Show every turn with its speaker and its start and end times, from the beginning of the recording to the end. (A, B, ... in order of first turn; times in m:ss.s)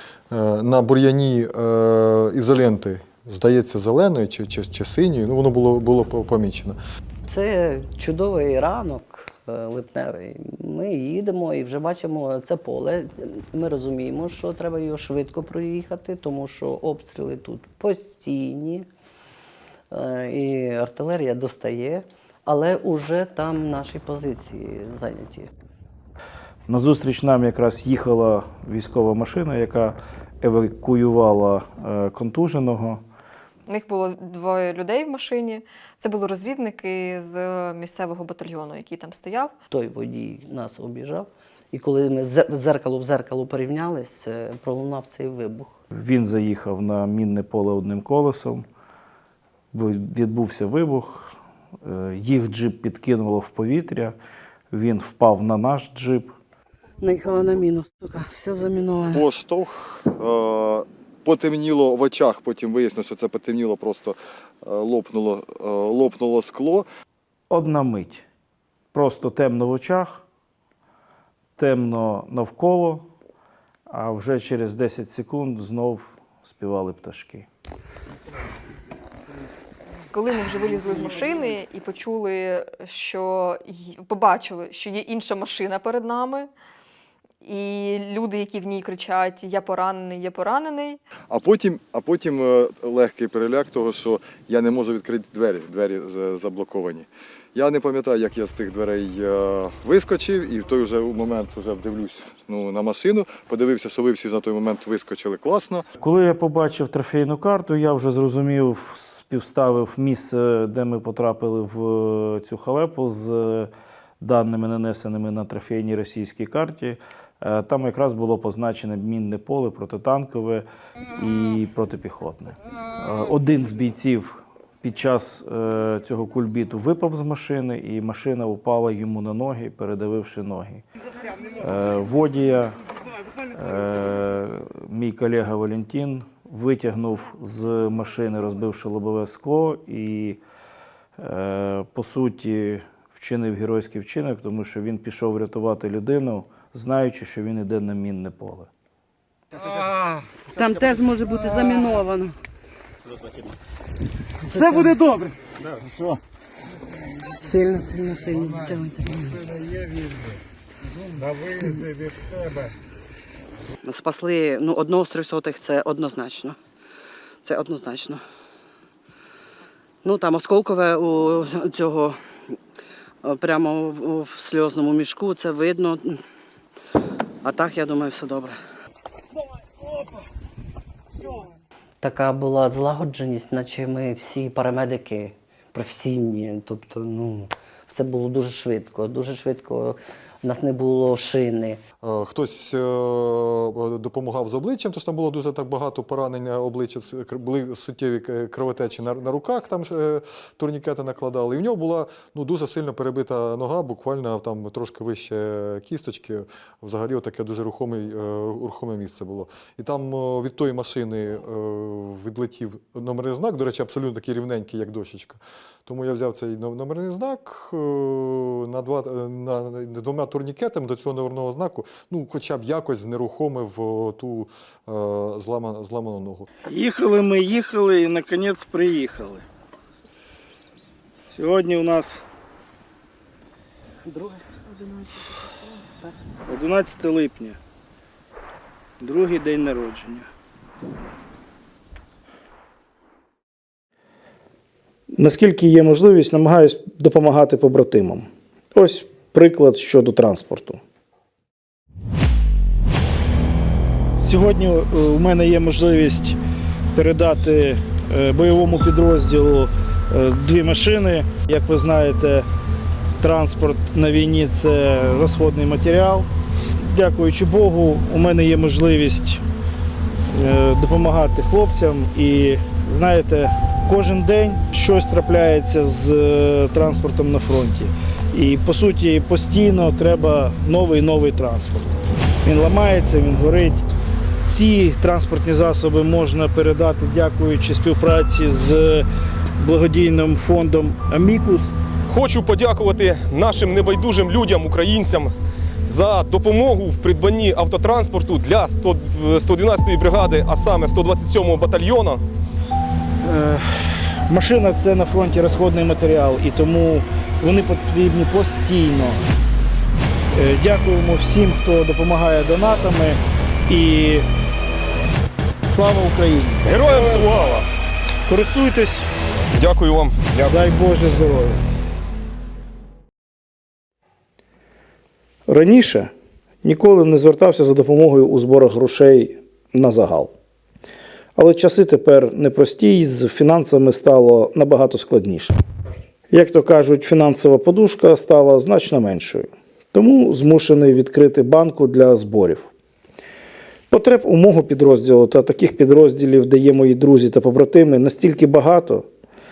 0:00.3-0:06.8 A
0:07.3-0:18.8 B
0:19.9-0:25.5 B
0:26.7-0:33.0 C
0:33.7-0:39.5 D
0:39.7-0:45.8 B
0:45.9-0:48.6 C
0:49.7-0:54.1 C
0:54.7-0:56.3 C
0:57.0-0:59.2 E
0:59.1-1:06.9 A
1:07.5-1:08.2 C
1:08.9-1:10.2 C
1:11.6-1:13.1 C
1:13.9-1:17.5 C
1:20.1-1:26.5 D
1:27.4-1:31.0 D
1:31.3-1:45.8 A
1:46.0-2:10.8 C
2:11.5-2:12.8 C
2:13.5-2:20.4 C
2:21.2-2:28.7 C
2:29.6-2:29.9 E
2:30.5-2:32.4 E
2:34.4-2:35.3 E
2:34.5-2:34.9 B
2:37.4-2:39.4 E
2:43.8-2:46.6 E
2:47.4-2:48.2 E
2:50.0-2:52.2 E
2:53.2-2:56.2 E
2:57.4-2:58.6 E
3:02.0-3:11.8 B
3:12.0-3:46.5 A
3:46.6-3:49.4 C
3:51.3-3:52.2 C
3:54.1-3:54.4 E
3:56.4-3:57.6 C
3:59.0-4:00.3 C
4:05.1-4:10.8 C
4:14.2-4:16.4 C
4:16.9-4:22.4 C
4:23.2-4:29.4 C
4:30.3-4:43.8 C
4:44.4-4:49.0 C
4:49.6-4:51.7 C
4:52.1-4:55.3 F
4:55.8-5:02.2 F
5:03.2-5:09.2 C
5:10.3-5:14.2 C
5:15.7-5:17.2 C
5:16.6-5:17.6 F
5:18.2-5:19.0 C
5:19.5-5:20.6 F
5:20.4-5:21.6 C
5:25.5-5:26.1 C
5:26.6-5:30.3 C
5:31.4-5:35.6 C
5:36.3-5:42.7 C
5:43.9-5:49.0 C